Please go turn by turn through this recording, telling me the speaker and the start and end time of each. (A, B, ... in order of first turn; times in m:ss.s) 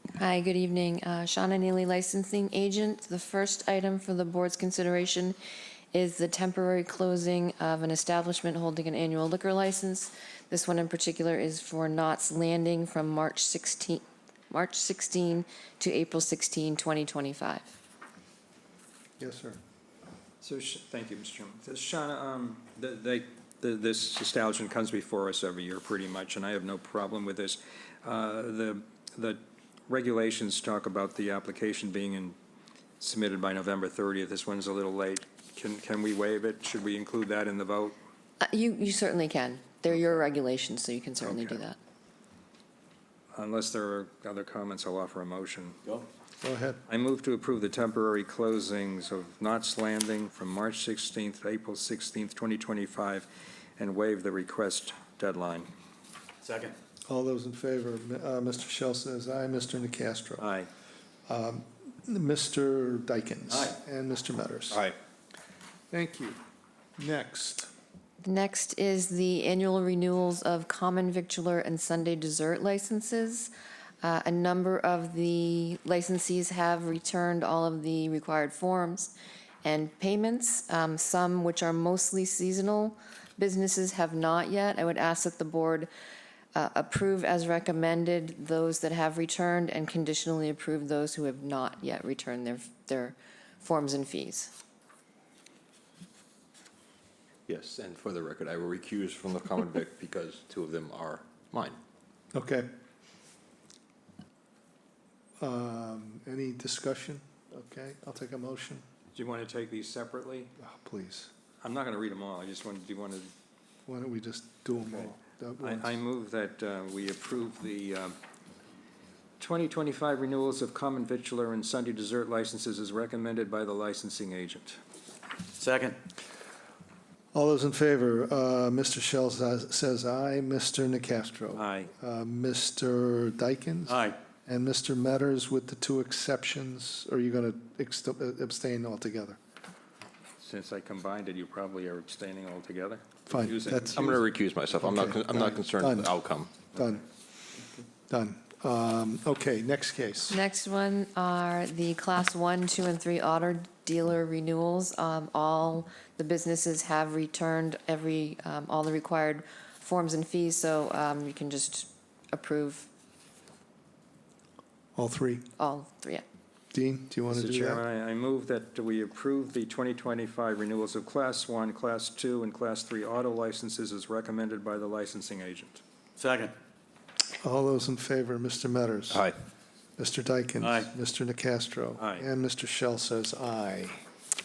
0:00.2-0:05.4 A
0:05.9-0:17.7 A
0:19.2-0:19.6 B
0:20.4-0:32.4 C
0:33.0-0:38.0 C
0:38.4-0:41.8 A
0:43.3-0:45.8 C
0:46.4-0:46.8 B
0:46.9-0:55.7 C
0:56.4-0:56.8 D
0:57.1-1:00.4 B
1:00.4-1:00.7 C
1:01.3-1:04.9 B
1:03.5-1:03.8 D
1:05.9-1:06.4 B
1:07.0-1:07.7 B
1:08.2-1:13.5 A
1:14.0-1:19.1 A
1:19.6-1:25.9 A
1:26.5-1:34.5 A
1:37.5-1:41.8 E
1:42.3-1:42.7 B
1:45.4-1:48.8 B
1:49.1-1:50.5 C
1:50.6-1:51.3 B
1:51.6-1:53.3 C
1:53.8-1:56.0 B
1:55.6-1:58.2 C
1:59.4-2:04.8 C
2:05.6-2:06.0 D
2:07.3-2:19.4 B
2:11.5-2:11.9 C
2:13.8-2:14.2 D
2:20.4-2:24.2 C
2:23.3-2:24.2 B
2:23.9-2:26.5 E
2:24.8-2:26.1 B
2:26.7-2:27.0 B
2:28.1-2:30.4 B
2:30.3-2:42.9 A
2:45.0-2:45.4 B
2:45.6-2:46.2 A
2:46.7-2:47.8 B
2:47.3-2:55.8 C
2:56.2-2:56.5 D
2:57.4-2:59.3 B
3:00.0-3:04.0 B
3:00.6-3:00.9 D
3:02.0-3:02.2 C